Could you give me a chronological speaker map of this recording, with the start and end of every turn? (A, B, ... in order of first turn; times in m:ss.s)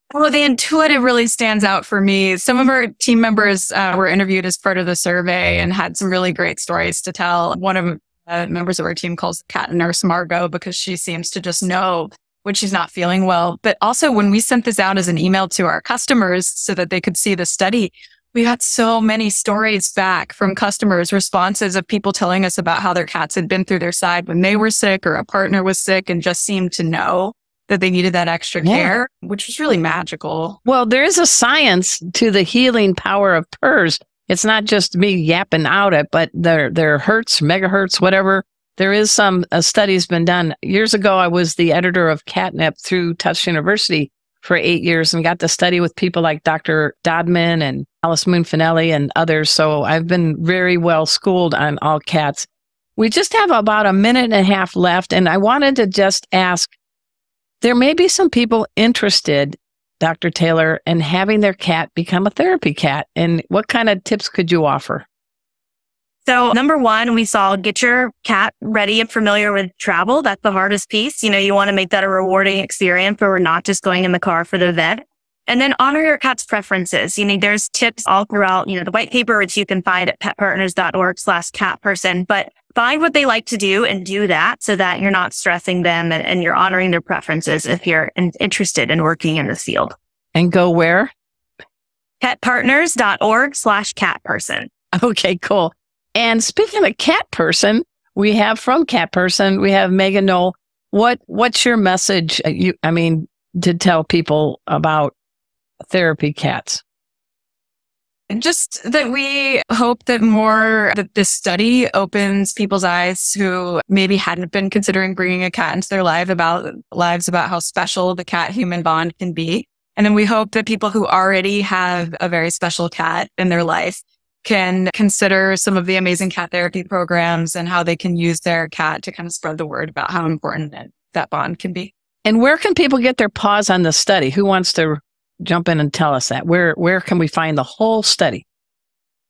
0:00.1-0:30.6 A
0:28.6-0:28.9 B
0:30.6-0:56.7 B
0:57.6-1:05.0 B
1:06.2-1:29.9 C
1:30.3-1:31.1 B
1:32.2-1:34.7 C
1:34.9-1:45.1 B
1:45.9-1:46.8 B
1:48.3-2:11.9 A
2:12.2-2:18.4 B